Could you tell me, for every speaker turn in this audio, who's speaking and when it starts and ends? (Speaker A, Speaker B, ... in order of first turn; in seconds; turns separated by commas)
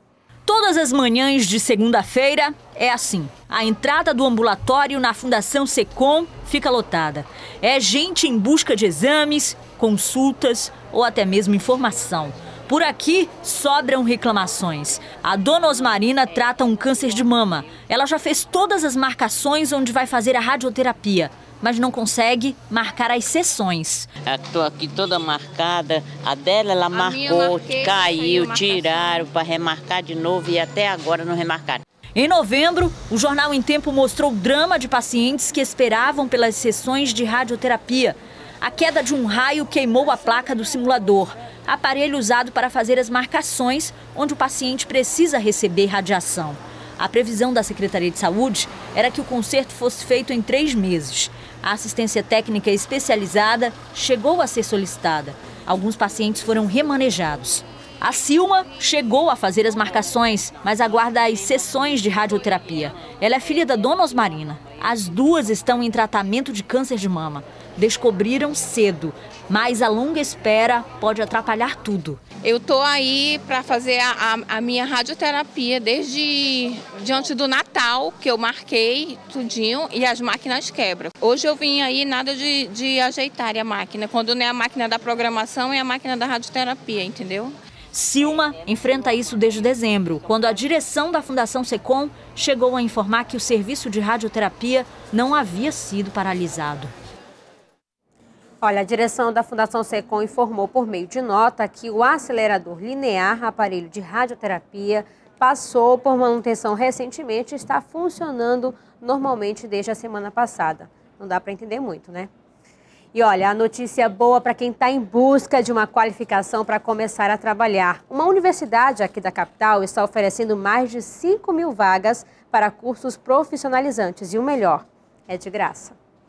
Speaker A: 0.5-24.1, Speaker B: 24.3-31.8, Speaker C: 26.9-29.1, Speaker A: 32.1-72.2, Speaker C: 72.4-87.5, Speaker A: 87.9-96.9, Speaker D: 98.6-112.3, Speaker D: 113.1-126.0